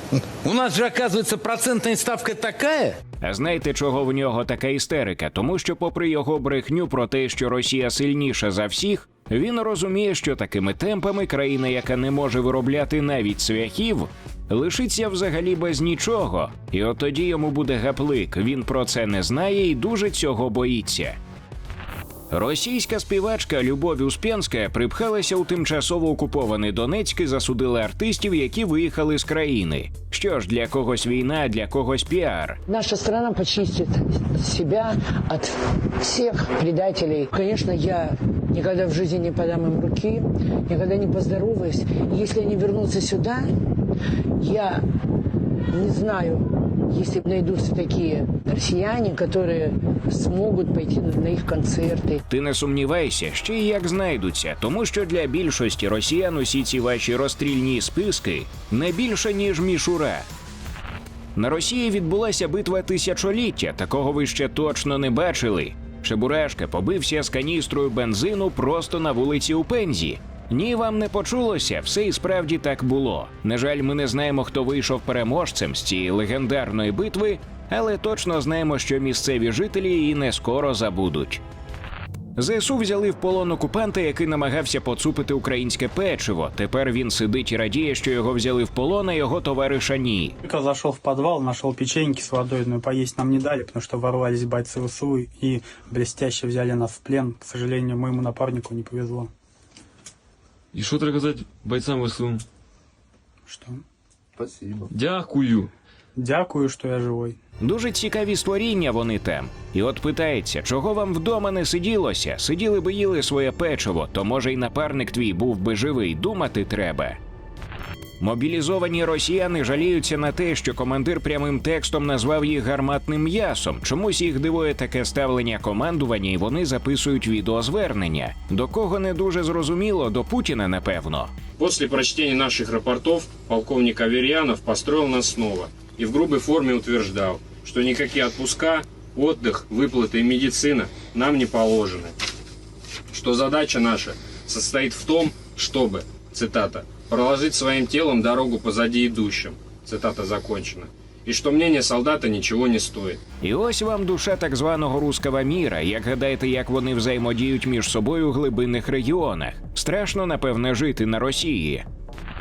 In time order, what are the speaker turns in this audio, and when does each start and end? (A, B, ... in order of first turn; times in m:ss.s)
0:00.4-0:03.0 A
0:03.2-0:21.2 B
0:22.3-0:32.6 B
0:32.7-0:43.5 C
0:44.4-0:44.8 C
0:45.7-0:52.2 C
0:52.3-1:00.2 B
1:01.4-1:21.4 B
1:22.4-1:30.4 B
1:30.4-1:39.3 D
1:40.7-1:42.4 E
1:43.5-1:43.8 D
1:44.8-1:45.7 E
1:46.2-1:47.4 D
1:47.6-1:57.2 B
1:58.2-2:11.3 B
2:11.6-2:22.1 F
2:23.1-2:33.2 F
2:33.4-2:41.8 B